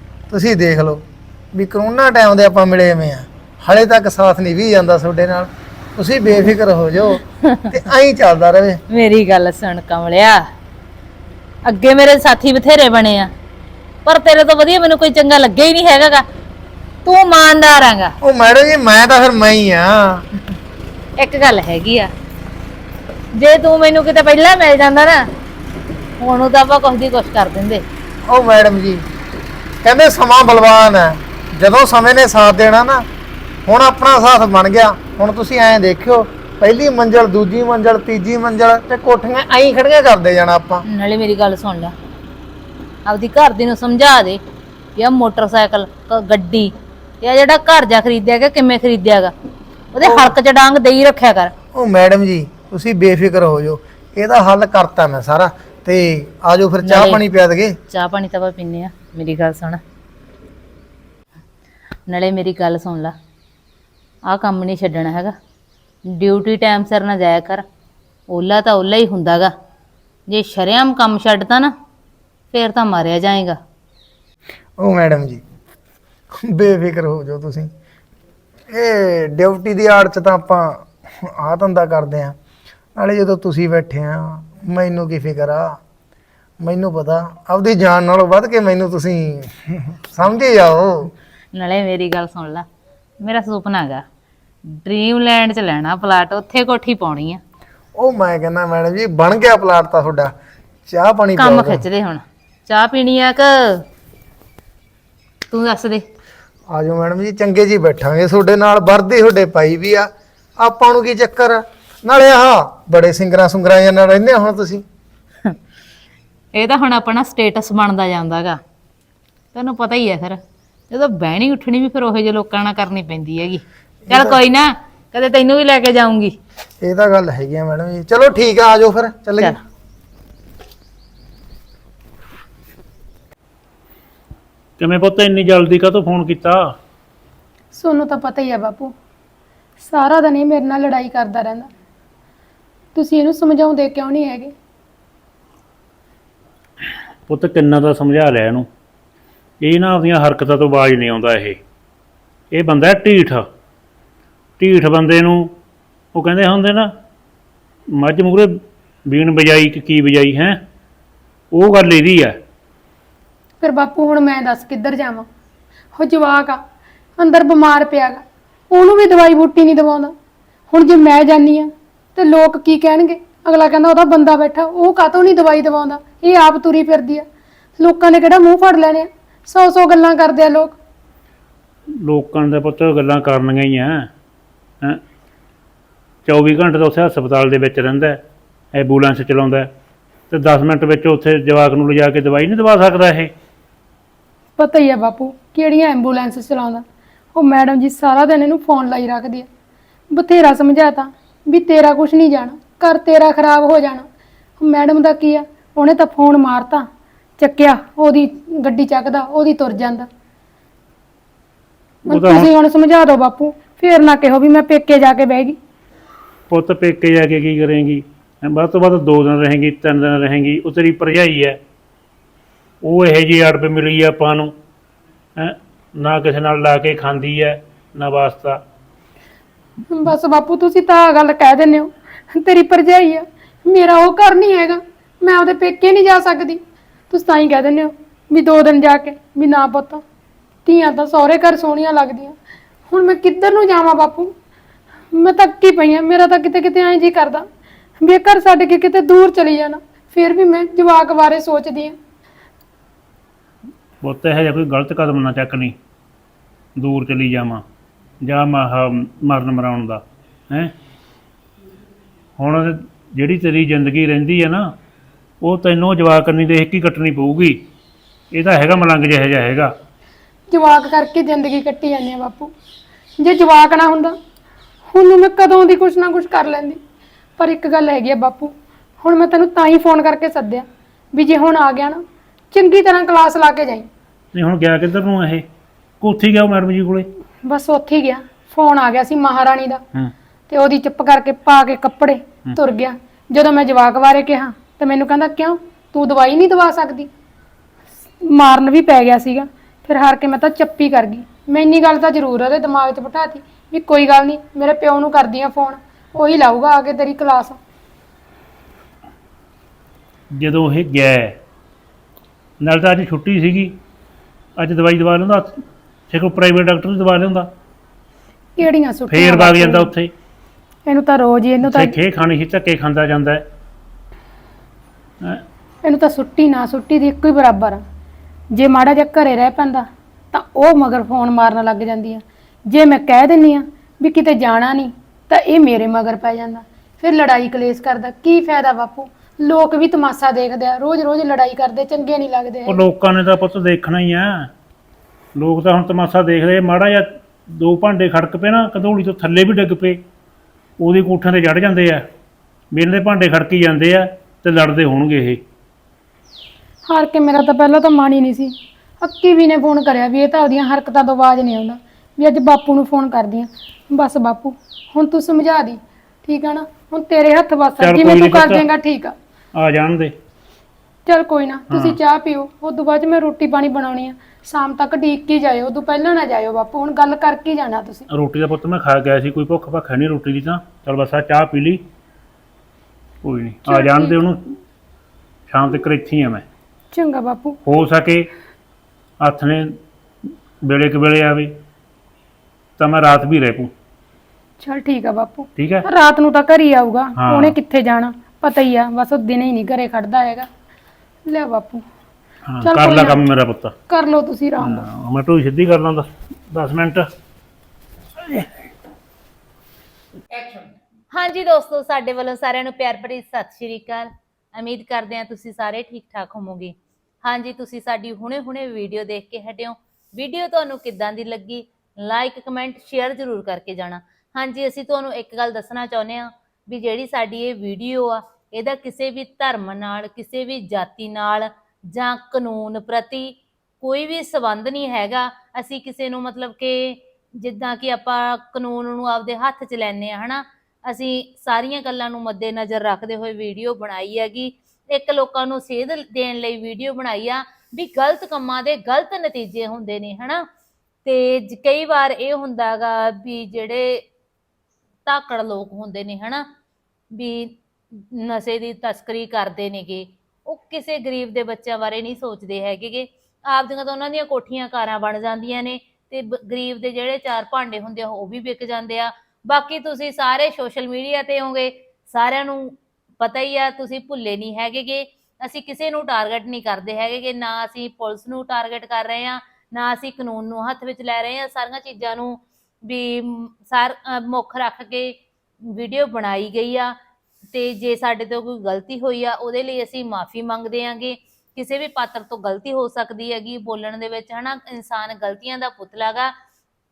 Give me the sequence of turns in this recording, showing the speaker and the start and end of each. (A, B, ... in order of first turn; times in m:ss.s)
0:00.3-0:08.8 A
0:08.9-0:10.4 B
0:11.6-0:13.3 B
0:14.0-0:16.2 B
0:17.0-0:18.1 B
0:18.2-0:20.2 A
0:21.2-0:22.1 B
0:23.3-0:25.3 B
0:26.2-0:27.8 B
0:28.3-0:29.0 A
0:29.8-0:33.0 A
0:33.6-0:40.8 A
0:40.8-0:41.9 B
0:43.0-0:44.4 B
0:45.0-0:49.3 B
0:49.9-0:51.5 B
0:50.0-0:50.3 A
0:51.7-0:57.8 A
0:56.8-0:57.2 B
0:57.9-0:59.8 B
1:02.1-1:03.1 B
1:04.3-1:05.3 B
1:06.0-1:07.6 B
1:08.3-1:09.5 B
1:10.3-1:11.7 B
1:12.5-1:13.6 B
1:14.8-1:15.4 A
1:16.4-1:17.7 A
1:18.7-1:22.4 A
1:23.0-1:25.8 A
1:26.6-1:31.1 A
1:31.5-1:32.6 B
1:33.2-1:34.0 B
1:34.6-1:37.4 B
1:38.0-1:40.3 A
1:40.9-1:41.8 A
1:41.4-1:43.8 B
1:45.5-1:46.0 B
1:46.7-1:54.8 A
1:56.5-1:58.6 B
1:59.5-2:00.4 B
2:00.9-2:06.3 B
2:04.1-2:04.4 A
2:06.8-2:09.6 A
2:14.8-2:16.7 C
2:17.7-2:18.9 D
2:19.8-2:21.7 D
2:22.9-2:24.5 D
2:27.3-2:28.7 C
2:29.6-2:31.6 C
2:32.5-2:33.4 C
2:34.6-2:35.5 C
2:36.1-2:36.9 C
2:38.0-2:40.6 C
2:41.5-2:42.4 C
2:43.6-2:45.2 D
2:45.9-2:46.6 D
2:47.2-2:50.1 D
2:50.7-2:57.2 D
2:57.8-3:00.7 D
3:02.0-3:04.1 C
3:06.2-3:08.2 C
3:08.7-3:09.7 C
3:10.3-3:13.3 C
3:14.6-3:19.5 D
3:20.1-3:24.0 D
3:24.6-3:26.9 D
3:27.4-3:30.1 D
3:32.1-3:35.6 D
3:32.1-3:32.5 C
3:36.5-3:41.6 C
3:42.8-3:44.5 C
3:45.4-3:48.6 C
3:49.9-3:56.6 D
3:57.1-4:00.0 D
4:00.6-4:02.4 D
4:02.9-4:04.3 D
4:05.1-4:07.4 D
4:08.0-4:11.9 D
4:14.0-4:15.7 C
4:16.8-4:17.6 C
4:18.2-4:20.7 C
4:22.4-4:24.6 C
4:25.4-4:27.6 C
4:28.3-4:29.7 C
4:30.5-4:32.5 D
4:33.2-4:34.2 D
4:34.9-4:36.8 D
4:37.4-4:43.9 D
4:44.3-4:45.4 C
4:46.0-4:47.1 C
4:47.4-4:49.8 D
4:50.5-4:57.1 D
4:58.2-5:07.6 D
5:10.4-5:11.4 C
5:12.6-5:13.8 C
5:14.6-5:15.6 C
5:16.1-5:17.5 C
5:18.6-5:19.9 D
5:19.1-5:20.1 C
5:20.9-5:21.9 D
5:21.6-5:23.4 C
5:25.8-5:27.8 D
5:28.5-5:42.8 D
5:42.6-5:44.5 C
5:45.4-5:50.0 C
5:50.8-5:52.0 C
5:52.7-5:55.4 C
5:56.9-6:09.1 D
6:07.8-6:08.6 C
6:09.5-6:10.1 C
6:11.1-6:18.0 D
6:11.7-6:12.0 C
6:18.1-6:21.8 C
6:23.2-6:24.4 C
6:23.7-6:24.2 D
6:25.5-6:26.4 C
6:26.9-6:27.6 D
6:27.6-6:28.3 C
6:29.2-6:29.8 C
6:30.6-6:31.6 C
6:32.8-6:33.7 C
6:34.6-6:40.5 D
6:35.6-6:35.8 C
6:37.2-6:37.6 C
6:41.3-6:41.8 D
6:42.5-6:43.8 C
6:42.6-6:43.2 D
6:43.9-6:44.8 D
6:44.6-6:47.1 C
6:51.1-7:30.4 B
7:31.0-7:34.0 B
7:35.0-7:36.4 B
7:37.1-8:07.0 B
8:07.5-8:16.3 B